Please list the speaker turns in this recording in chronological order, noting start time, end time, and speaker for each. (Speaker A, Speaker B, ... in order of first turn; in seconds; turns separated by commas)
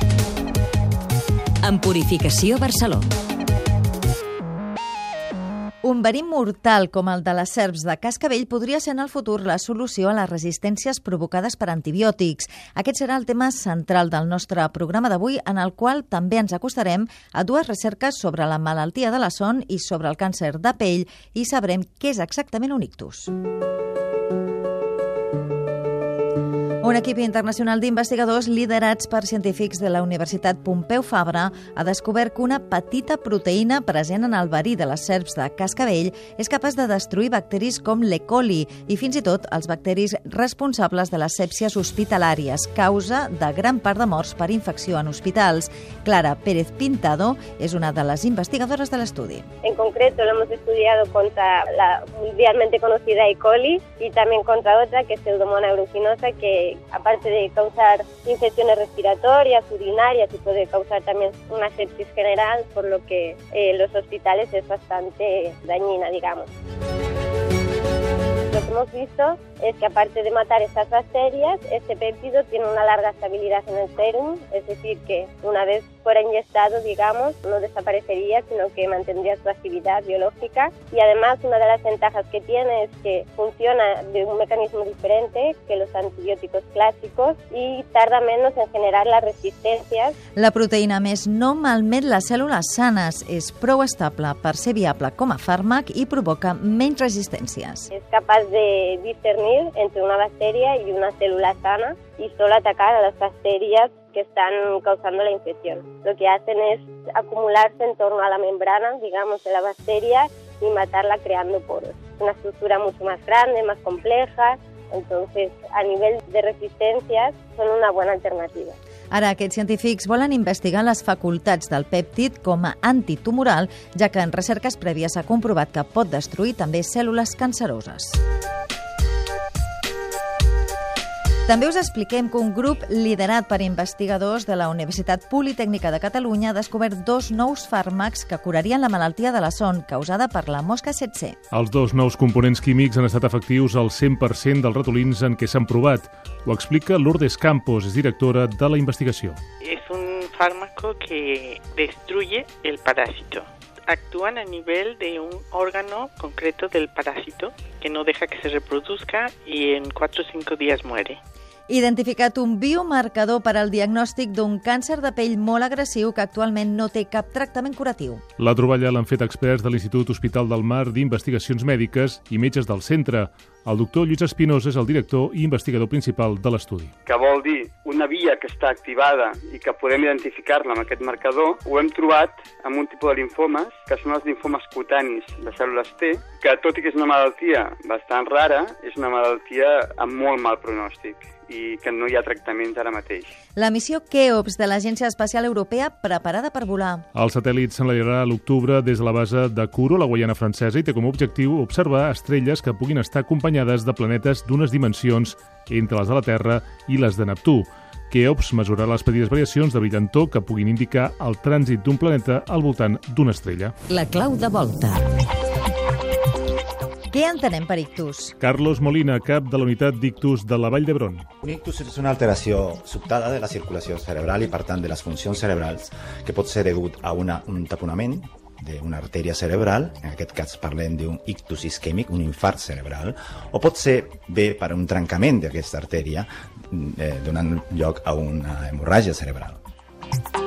Speaker A: 1.6-3.1, Speaker B: 5.8-23.3, Speaker B: 26.8-49.5, Speaker C: 49.6-66.5, Speaker C: 68.5-90.2, Speaker B: 90.3-97.9, Speaker C: 97.9-118.8, Speaker B: 119.1-128.2, Speaker B: 131.5-141.3, Speaker D: 141.5-149.4, Speaker E: 149.6-161.2, Speaker B: 161.7-168.2, Speaker D: 168.4-176.9, Speaker F: 177.1-193.3, Speaker B: 193.6-197.0, Speaker D: 197.1-213.7, Speaker A: 213.9-215.1, Speaker B: 217.1-218.3, Speaker D: 218.4-221.2, Speaker G: 221.4-239.6